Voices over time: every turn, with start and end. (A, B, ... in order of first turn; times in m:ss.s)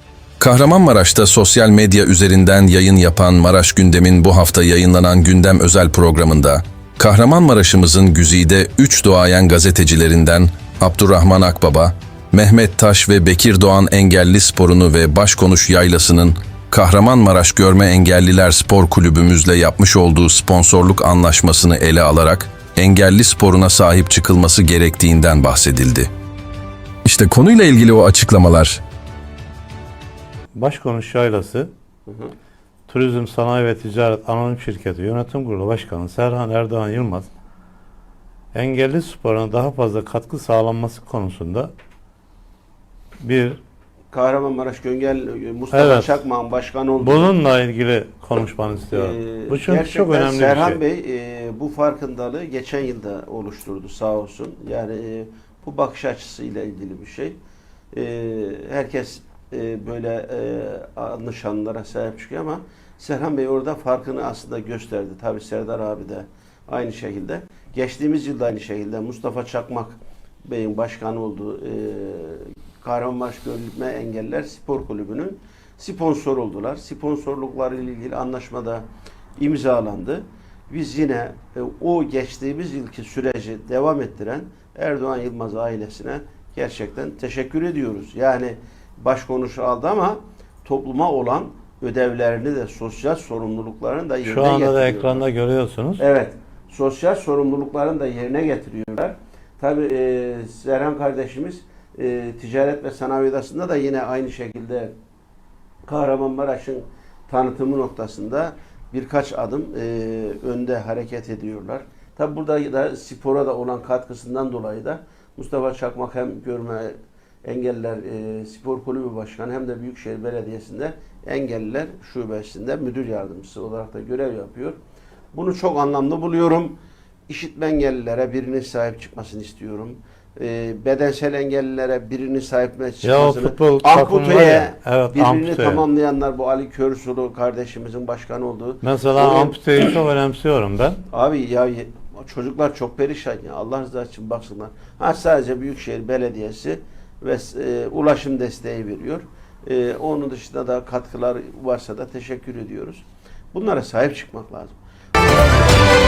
0:00.4-0:26.1 A
0:27.0-0:28.8 A
0:30.5-0:31.7 B
0:32.1-0:32.3 C
0:32.9-0:37.3 B
0:38.5-0:41.7 B
0:43.2-0:43.6 B
0:44.1-0:47.4 C
0:45.7-0:46.2 B
0:47.0-0:50.8 B
0:48.9-0:57.4 C
0:57.9-1:18.8 C
1:19.4-1:35.3 C
1:34.2-1:36.0 B
1:36.0-1:44.9 C
1:45.8-2:04.8 C
2:05.3-2:20.0 C
2:13.0-2:15.8 B
2:18.8-2:21.0 B
2:21.1-2:34.8 C